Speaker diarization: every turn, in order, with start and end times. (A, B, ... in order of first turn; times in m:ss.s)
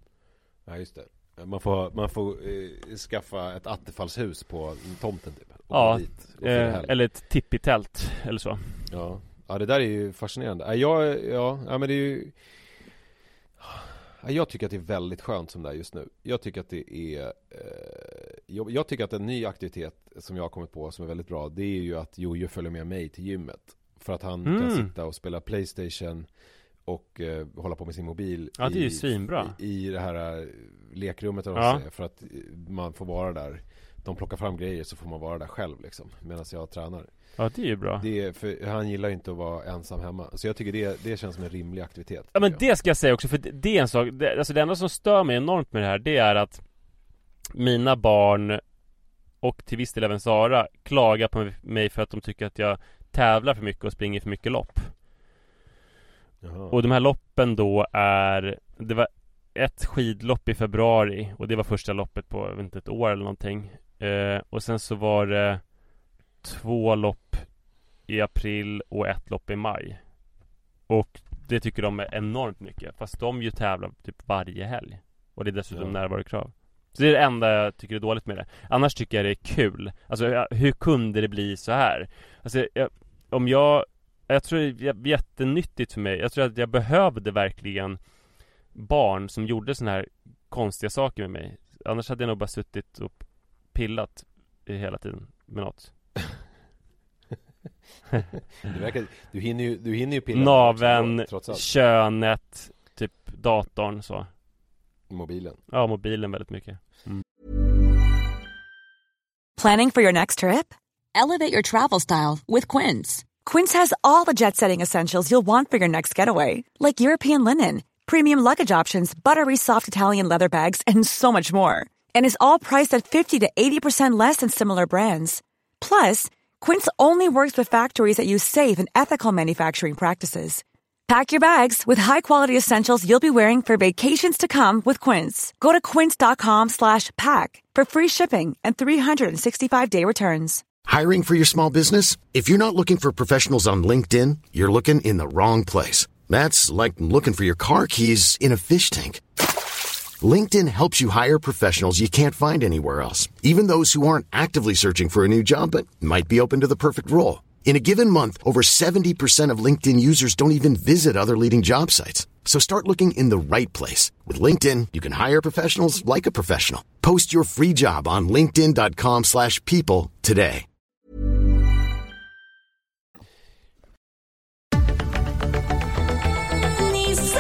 0:00.7-0:06.9 A
0:05.7-0:08.7 B
0:08.9-0:12.4 A
0:13.6-0:26.3 A
0:24.4-0:24.9 B
0:26.9-0:37.1 A
0:28.6-0:29.6 B
0:31.6-0:31.8 B
0:37.4-0:38.1 B
0:38.0-0:42.6 A
0:42.3-0:46.6 B
0:47.5-0:48.6 B
0:49.4-0:54.9 B
0:56.4-0:56.8 A
0:56.7-1:05.7 B
1:06.4-1:07.5 B
1:08.1-1:10.0 B
1:10.9-1:28.0 B
1:15.7-1:16.0 A
1:28.7-1:35.9 B
1:38.6-1:41.6 A
1:40.3-1:44.3 B
1:45.1-1:45.6 A
1:45.7-1:47.2 B
1:49.6-2:20.7 C
2:20.8-2:29.2 D
2:30.2-2:50.6 D